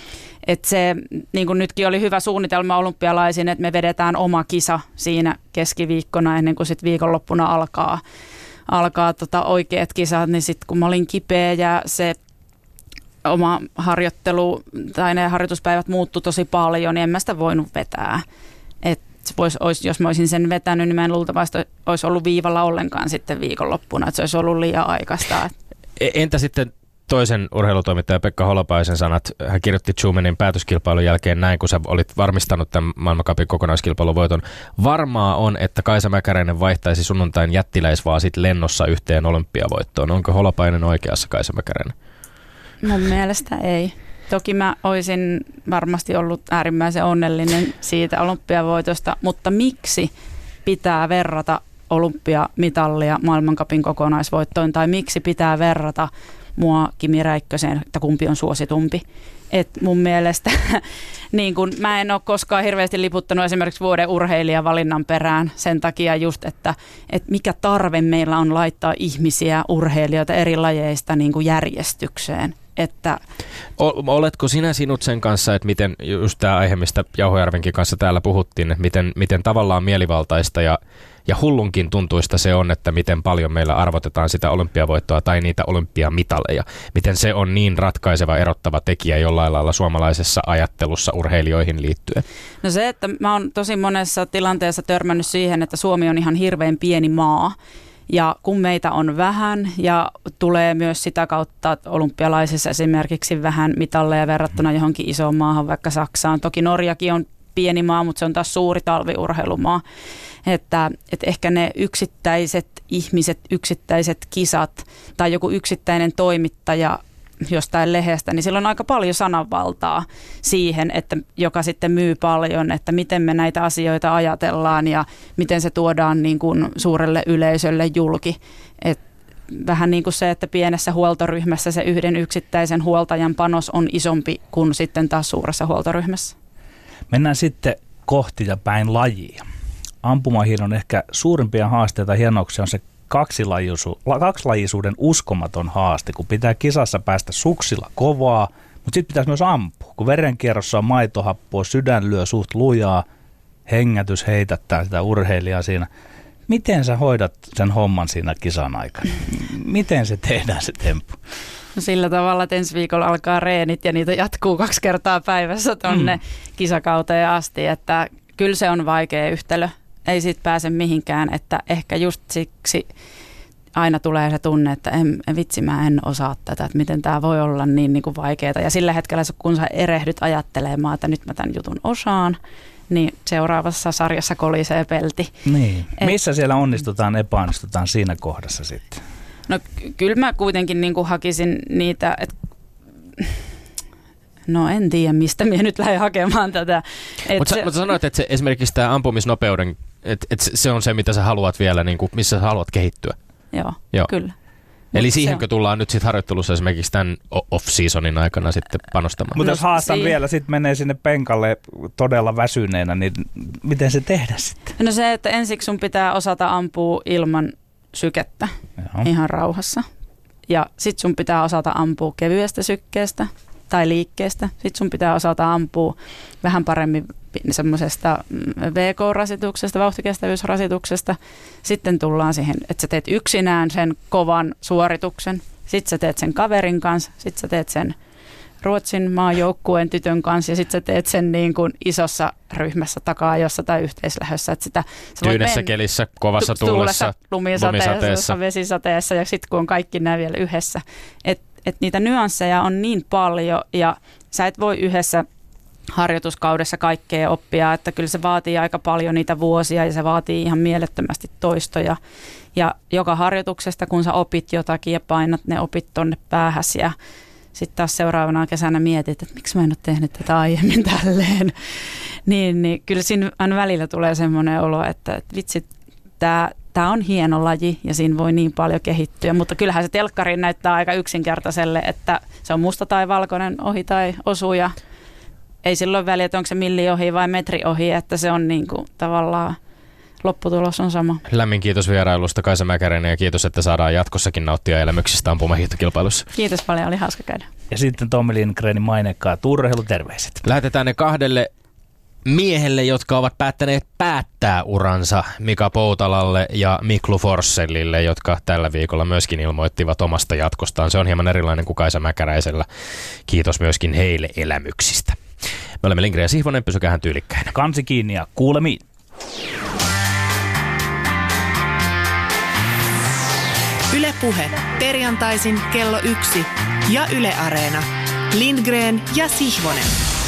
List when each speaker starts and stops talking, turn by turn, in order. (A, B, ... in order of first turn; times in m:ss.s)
0:00.4-0:08.0 A
0:08.7-0:12.2 A
0:13.2-0:18.2 A
0:18.8-0:25.5 A
0:26.0-0:41.9 B
0:42.8-0:50.1 A
0:50.6-1:13.2 A
1:13.8-1:32.2 B
1:32.6-1:37.6 A
1:38.1-1:49.8 A
1:50.4-2:09.0 A
2:09.5-2:16.3 A
2:17.1-2:19.4 C
2:20.0-2:33.0 C
2:33.7-2:35.9 C
2:36.5-2:41.2 C
2:41.7-2:52.9 A
2:45.9-2:46.2 C
2:53.8-3:02.4 A
3:02.9-3:05.3 A
3:05.4-3:09.0 C
3:09.5-3:12.4 A
3:14.5-3:17.7 A
3:17.4-3:23.2 B
3:23.5-3:24.3 A
3:24.9-3:25.4 A
3:24.9-3:29.4 B
3:29.3-3:34.7 C
3:29.4-3:30.2 A
3:34.8-3:39.8 A
3:38.8-3:39.1 C
3:40.5-3:57.9 A
3:58.6-4:05.7 A
4:05.2-4:08.3 B
4:06.4-4:15.2 A
4:15.9-4:22.0 A
4:22.5-4:26.9 A
4:27.5-4:31.5 A
4:32.2-4:35.6 A
4:36.2-4:44.7 A
4:45.6-4:49.6 A
4:50.2-4:51.2 A
4:51.3-4:56.3 B
4:56.3-4:57.4 A
4:57.7-5:00.4 C
5:00.4-5:01.5 B
5:02.2-5:12.6 B
5:13.3-5:15.2 B
5:15.8-5:17.5 B
5:17.5-5:18.8 C
5:23.9-5:29.9 D